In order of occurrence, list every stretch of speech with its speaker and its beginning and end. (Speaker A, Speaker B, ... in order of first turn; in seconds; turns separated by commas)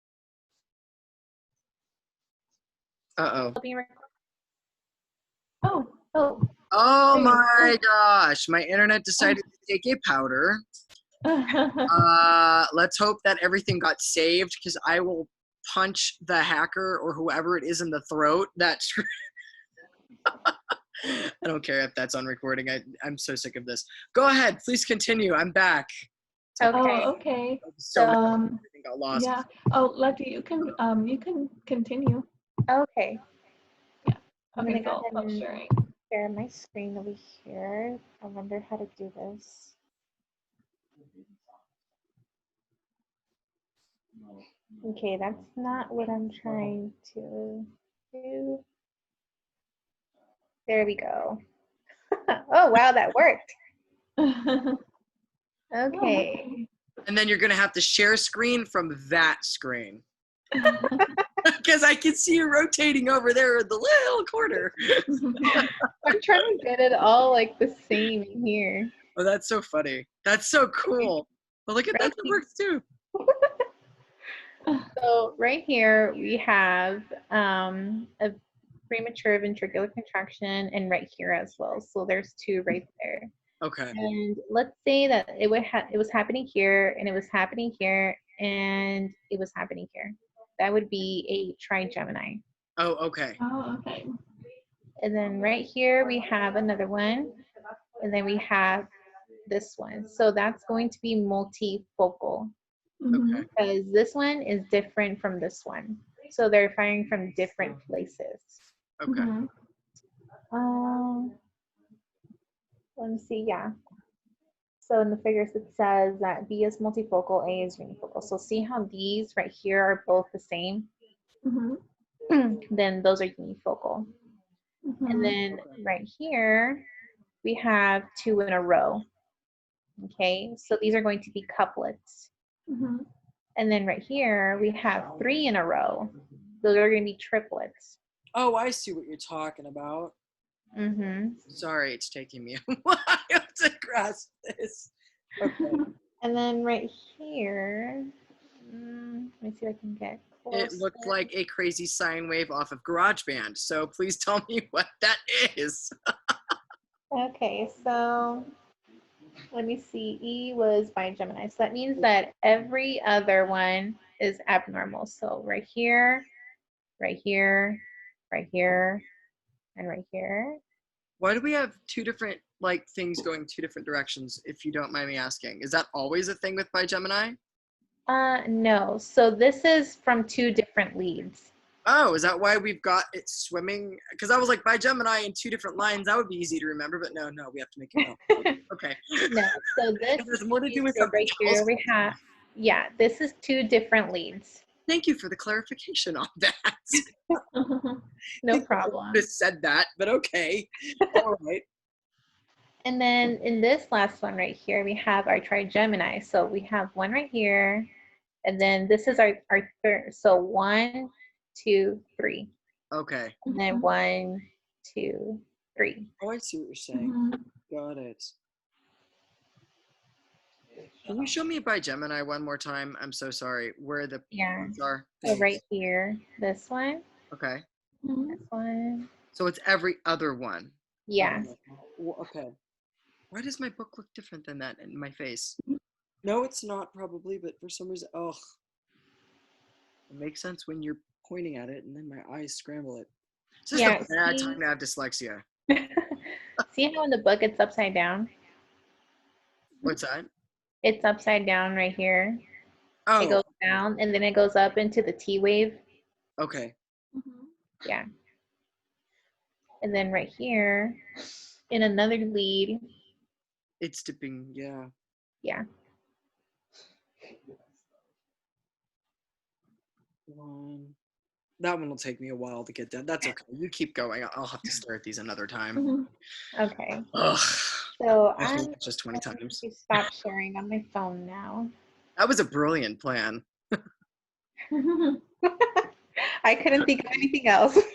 Speaker A: 3.2-3.5, Speaker B: 3.6-4.0, Speaker B: 5.7-6.5, Speaker A: 6.7-10.6, Speaker B: 7.1-7.7, Speaker C: 11.2-11.9, Speaker A: 11.8-19.1, Speaker A: 20.4-25.9, Speaker A: 26.6-27.0, Speaker B: 26.6-27.1, Speaker C: 26.7-28.6, Speaker A: 27.6-29.4, Speaker B: 27.9-28.3, Speaker C: 29.1-32.3, Speaker B: 32.7-33.2, Speaker C: 34.0-35.8, Speaker B: 34.6-39.7, Speaker B: 44.8-48.6, Speaker B: 50.7-51.4, Speaker B: 52.3-53.5, Speaker C: 54.2-54.8, Speaker B: 55.7-56.5, Speaker C: 55.9-56.6, Speaker A: 57.0-60.0, Speaker C: 60.5-61.1, Speaker A: 61.4-65.8, Speaker C: 65.1-65.4, Speaker B: 65.5-69.0, Speaker A: 69.1-72.8, Speaker B: 71.9-72.4, Speaker B: 73.2-73.6, Speaker B: 75.0-78.4, Speaker B: 78.9-83.3, Speaker A: 83.6-84.0, Speaker B: 83.9-92.4, Speaker A: 92.8-93.4, Speaker C: 93.4-94.1, Speaker B: 95.0-97.4, Speaker B: 98.0-98.9, Speaker B: 99.5-102.5, Speaker C: 103.0-103.5, Speaker A: 103.1-103.5, Speaker B: 103.5-108.6, Speaker A: 109.0-109.3, Speaker C: 109.1-109.5, Speaker B: 110.5-111.3, Speaker B: 113.0-113.7, Speaker B: 114.8-120.9, Speaker C: 121.4-121.8, Speaker B: 122.3-124.1, Speaker C: 124.8-125.4, Speaker B: 125.1-126.8, Speaker B: 127.4-129.1, Speaker B: 130.0-132.3, Speaker C: 132.7-133.1, Speaker B: 133.6-137.9, Speaker A: 138.3-140.1, Speaker B: 140.7-141.4, Speaker A: 141.4-145.9, Speaker B: 146.2-148.1, Speaker B: 148.7-151.2, Speaker A: 150.5-155.9, Speaker B: 157.1-158.5, Speaker B: 159.5-166.3, Speaker B: 167.0-169.1, Speaker B: 169.8-170.6, Speaker A: 171.2-177.4, Speaker B: 178.1-181.5, Speaker A: 181.8-189.4, Speaker B: 188.0-188.6, Speaker B: 189.3-194.6, Speaker A: 190.1-191.7, Speaker A: 194.9-197.1, Speaker C: 197.5-198.0, Speaker B: 198.4-199.2, Speaker A: 198.5-201.6, Speaker B: 202.8-207.9, Speaker B: 208.4-212.5, Speaker A: 212.9-213.4, Speaker C: 213.4-213.9, Speaker B: 213.5-216.1, Speaker A: 216.2-217.2, Speaker C: 216.9-217.4, Speaker A: 217.7-218.3, Speaker A: 221.0-225.6, Speaker B: 224.3-227.0, Speaker A: 227.3-227.6, Speaker C: 228.0-228.4, Speaker B: 228.3-229.1, Speaker A: 229.3-232.5, Speaker B: 231.1-231.5, Speaker A: 233.3-235.6, Speaker A: 236.2-238.4, Speaker A: 240.1-243.1, Speaker A: 243.7-245.4, Speaker B: 243.7-244.6, Speaker B: 245.7-246.2, Speaker B: 246.7-248.3, Speaker A: 249.8-250.3, Speaker B: 250.8-252.4, Speaker A: 253.1-253.4, Speaker B: 253.2-255.8, Speaker A: 256.4-256.7, Speaker C: 257.1-257.5, Speaker B: 259.8-261.0, Speaker B: 261.7-262.8, Speaker A: 263.8-264.9, Speaker A: 270.3-270.9, Speaker A: 271.6-275.9, Speaker C: 275.8-276.1, Speaker B: 276.6-277.1, Speaker A: 277.1-280.0, Speaker B: 278.0-281.7, Speaker A: 282.2-283.4, Speaker C: 284.7-285.2, Speaker B: 285.4-285.9, Speaker B: 286.4-287.8